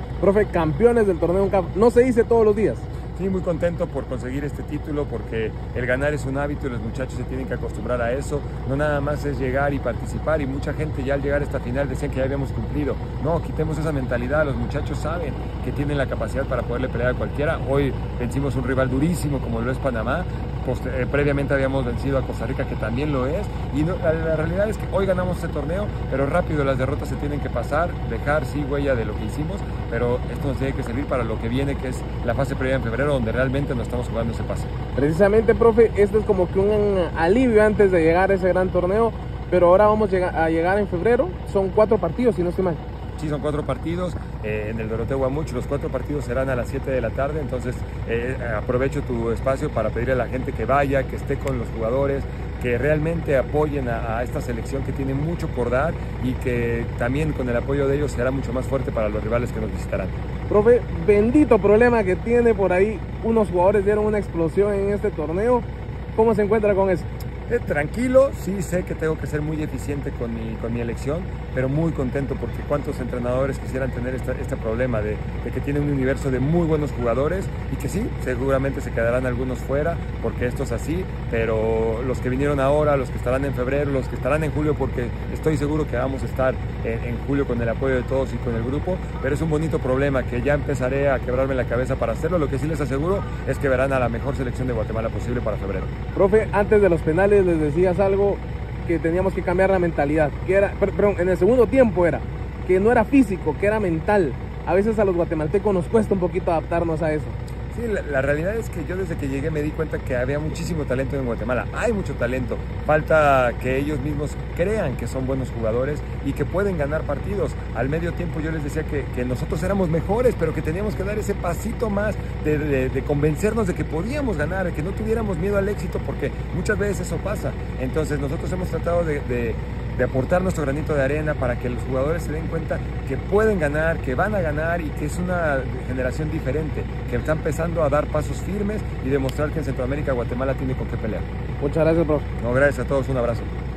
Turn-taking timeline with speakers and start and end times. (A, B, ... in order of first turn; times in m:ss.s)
0:00.2-0:02.9 A
0:03.1-0:34.7 B
0:35.0-0:42.8 A
0:43.2-1:00.2 B
1:00.5-1:07.1 A
1:07.5-1:35.9 B
1:36.1-1:47.4 A
1:47.7-2:21.3 B
2:21.6-2:22.3 A
2:22.4-2:23.5 B